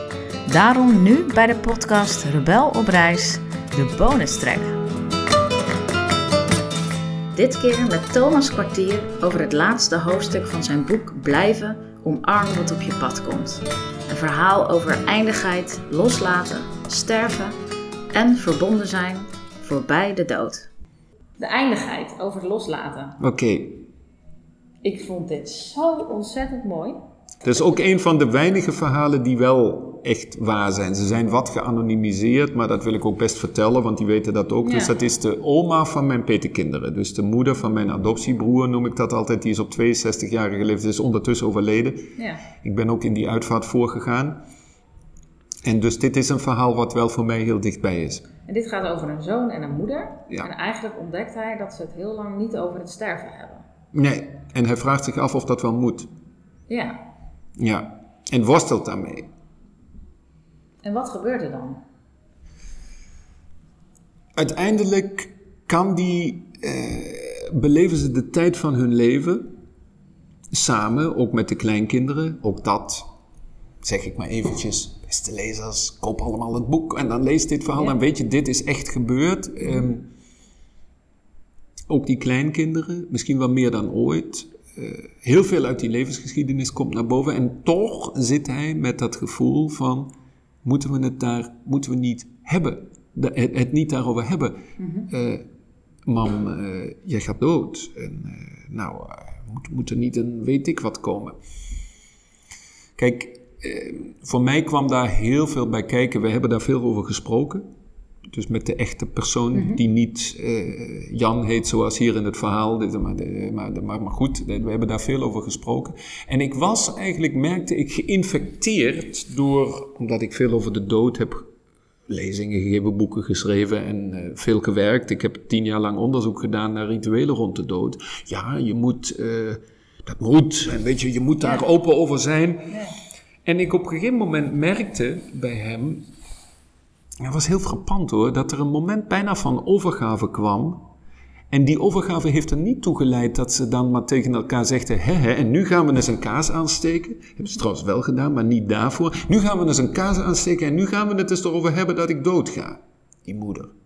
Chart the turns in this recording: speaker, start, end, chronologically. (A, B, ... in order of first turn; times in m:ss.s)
0:00.5-0:04.8 A
0:07.3-0:17.6 A
0:18.1-0:20.7 A
0:21.4-0:23.2 A
0:23.2-0:23.9 B
0:24.8-0:27.0 A
0:27.4-0:44.4 B
0:34.6-0:34.9 A
0:42.2-0:42.5 A
0:45.6-0:48.2 B
0:48.5-0:53.6 A
0:53.9-0:56.1 B
0:56.7-0:57.0 A
0:57.6-0:59.3 B
1:00.8-1:01.8 A
1:04.4-1:09.5 B
1:10.5-1:13.0 B
1:13.8-1:20.1 B
1:21.9-1:30.1 B
1:30.6-1:34.6 B
1:34.8-1:35.1 A
1:35.1-1:35.4 B
1:36.1-1:41.4 B
1:43.0-1:47.6 B
1:48.3-2:01.4 B
1:49.5-1:49.8 A
2:02.1-2:12.8 B
2:11.4-2:11.7 A
2:12.7-2:13.0 A
2:13.4-2:16.0 B
2:17.2-2:20.8 B
2:21.5-2:33.7 B